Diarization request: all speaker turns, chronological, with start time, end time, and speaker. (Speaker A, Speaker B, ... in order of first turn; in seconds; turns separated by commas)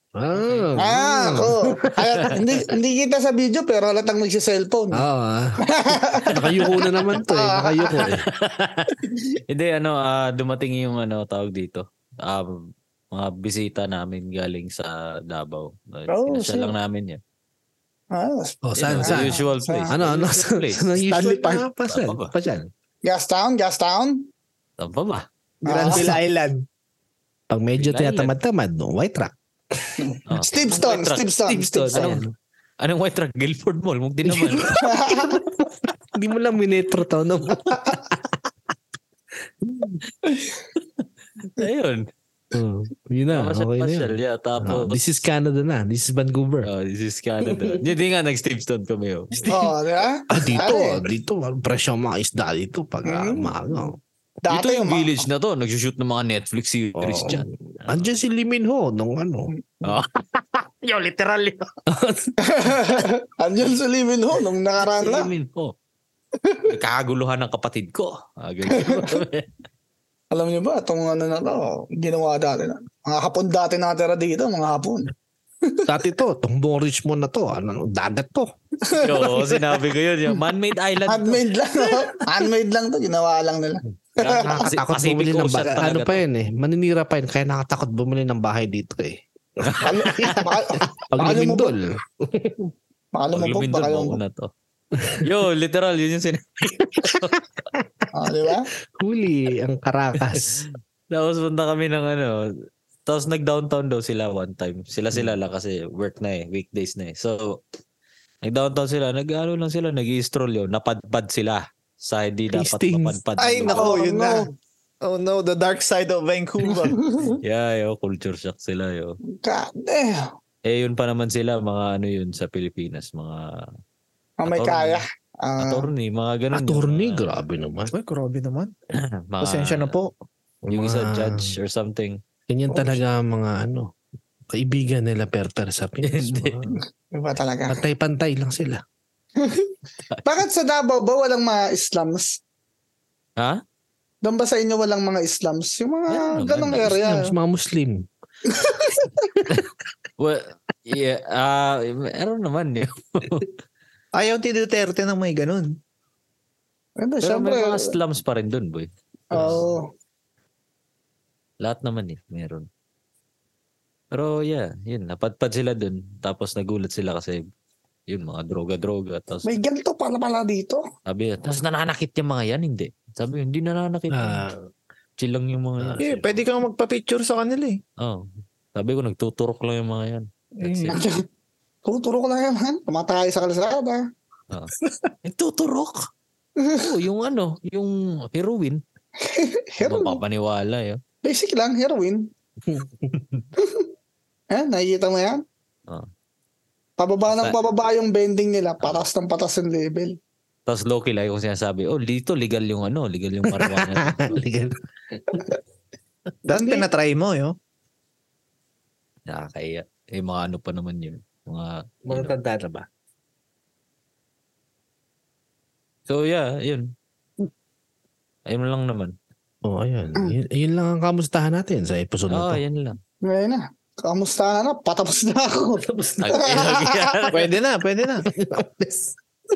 Speaker A: 0.1-1.9, Speaker B: 0.8-5.0, Speaker A: 4.9-8.2, Speaker B: 5.7-8.1, Speaker C: 6.3-6.8, Speaker C: 8.3-17.2, Speaker B: 16.1-16.7, Speaker B: 18.1-19.9, Speaker A: 18.6-22.7, Speaker C: 18.8-21.0, Speaker D: 21.0-21.7, Speaker C: 21.9-22.3, Speaker B: 23.0-24.2, Speaker C: 24.8-25.2, Speaker D: 25.6-26.6, Speaker B: 25.6-26.1, Speaker A: 25.9-26.2, Speaker A: 27.5-30.1, Speaker C: 27.8-28.3, Speaker B: 30.0-32.2, Speaker C: 30.3-31.3, Speaker A: 31.4-32.3, Speaker C: 31.9-32.2, Speaker C: 32.8-34.8, Speaker A: 34.3-38.5, Speaker B: 34.8-35.4, Speaker A: 39.6-40.0, Speaker C: 40.8-42.1, Speaker A: 42.5-46.7, Speaker C: 43.3-45.2, Speaker C: 46.6-49.6, Speaker A: 47.5-47.8, Speaker A: 49.4-49.6, Speaker B: 49.5-51.0, Speaker A: 50.3-54.0, Speaker B: 53.0-53.5, Speaker B: 54.4-55.2, Speaker C: 54.5-58.1, Speaker A: 57.0-59.5, Speaker C: 59.8-61.7, Speaker A: 61.9-62.3, Speaker B: 62.4-65.3, Speaker C: 64.9-65.7, Speaker C: 66.6-69.5, Speaker B: 68.7-69.2, Speaker B: 70.3-75.1, Speaker B: 75.6-75.9, Speaker A: 75.9-78.5, Speaker B: 78.8-79.1, Speaker C: 78.9-81.4, Speaker A: 79.0-79.5, Speaker B: 81.1-84.6, Speaker C: 84.2-86.2, Speaker A: 84.4-89.2, Speaker C: 89.6-90.4, Speaker B: 89.8-91.8, Speaker A: 90.1-90.4, Speaker A: 91.0-92.7, Speaker B: 93.1-94.2, Speaker C: 93.3-94.5, Speaker C: 95.2-97.4, Speaker A: 97.7-98.0, Speaker B: 98.1-98.7, Speaker A: 99.0-100.6, Speaker C: 100.3-102.5, Speaker C: 103.0-107.6, Speaker C: 108.4-114.0, Speaker A: 112.5-113.2, Speaker D: 113.4-114.5, Speaker B: 113.7-114.5, Speaker D: 115.0-117.0, Speaker C: 117.4-119.2, Speaker B: 119.4-120.3, Speaker C: 120.7-123.7, Speaker B: 124.4-125.9, Speaker C: 124.5-125.0, Speaker C: 125.6-127.4, Speaker A: 126.5-127.9, Speaker D: 127.9-128.7, Speaker C: 128.9-129.9, Speaker D: 129.4-130.1, Speaker A: 130.7-131.5, Speaker C: 130.7-132.2, Speaker A: 132.5-133.9, Speaker A: 134.5-136.7, Speaker C: 136.0-136.7, Speaker B: 137.1-137.8, Speaker A: 137.7-138.8, Speaker B: 139.4-139.7, Speaker B: 140.2-142.4, Speaker B: 144.2-147.3, Speaker C: 146.1-146.9, Speaker A: 146.7-148.1, Speaker B: 148.5-149.3, Speaker C: 150.2-153.5, Speaker D: 154.2-155.8, Speaker B: 157.0-157.9, Speaker C: 157.2-159.6, Speaker B: 159.3-159.8, Speaker A: 159.3-159.6, Speaker C: 161.6-162.7, Speaker C: 164.1-167.4, Speaker C: 168.1-169.5, Speaker B: 169.4-170.8, Speaker C: 171.1-174.4, Speaker A: 174.1-174.6, Speaker C: 175.2-176.4, Speaker A: 175.8-176.2, Speaker D: 176.0-177.8, Speaker C: 178.0-181.0, Speaker D: 180.6-181.0, Speaker B: 180.9-181.2, Speaker B: 181.8-184.0, Speaker C: 185.2-186.1, Speaker B: 186.6-186.9, Speaker C: 186.8-188.8, Speaker B: 189.2-190.2, Speaker C: 189.8-191.0, Speaker B: 191.2-192.3, Speaker A: 192.7-193.1, Speaker C: 193.2-193.4, Speaker B: 193.6-193.9, Speaker B: 194.5-195.4, Speaker B: 197.0-200.2, Speaker C: 197.3-197.6, Speaker C: 198.8-199.1, Speaker C: 200.7-204.4, Speaker A: 203.4-205.4, Speaker D: 206.4-207.6, Speaker B: 206.5-206.9, Speaker C: 209.3-212.3, Speaker A: 212.1-212.8, Speaker C: 216.1-216.9, Speaker C: 218.4-219.1, Speaker A: 219.6-222.6, Speaker C: 222.3-223.0, Speaker B: 223.2-227.3, Speaker A: 225.8-226.2, Speaker C: 226.2-227.4, Speaker D: 227.3-228.3, Speaker A: 228.2-229.2